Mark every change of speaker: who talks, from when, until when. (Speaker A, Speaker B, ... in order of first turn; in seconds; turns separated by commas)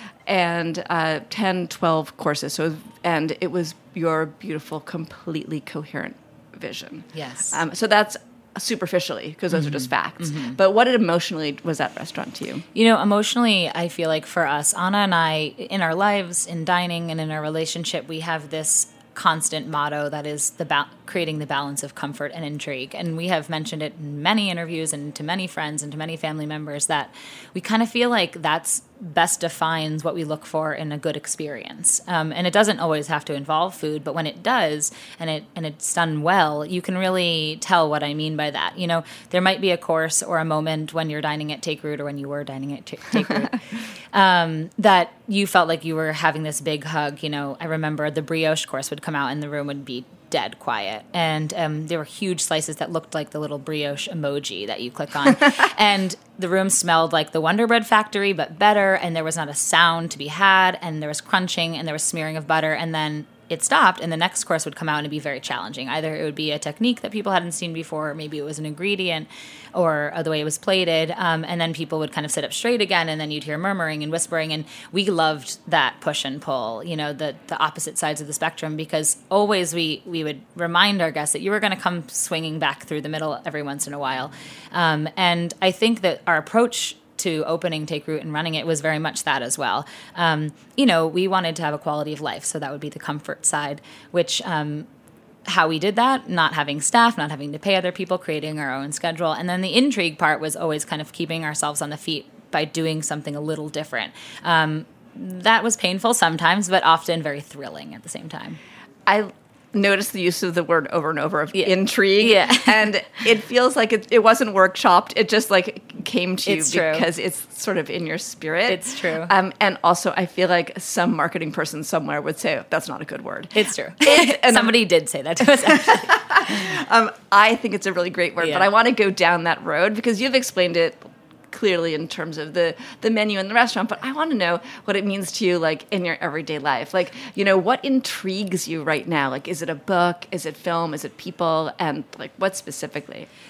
Speaker A: 0.3-12.7, Speaker B: 7.1-7.6, Speaker B: 9.5-10.6, Speaker B: 12.8-43.6, Speaker B: 44.1-94.9, Speaker B: 95.5-108.6, Speaker A: 109.1-124.8, Speaker B: 111.5-112.9, Speaker B: 116.5-117.1, Speaker B: 118.7-119.3, Speaker B: 123.5-126.7, Speaker A: 125.4-143.3, Speaker B: 128.4-128.7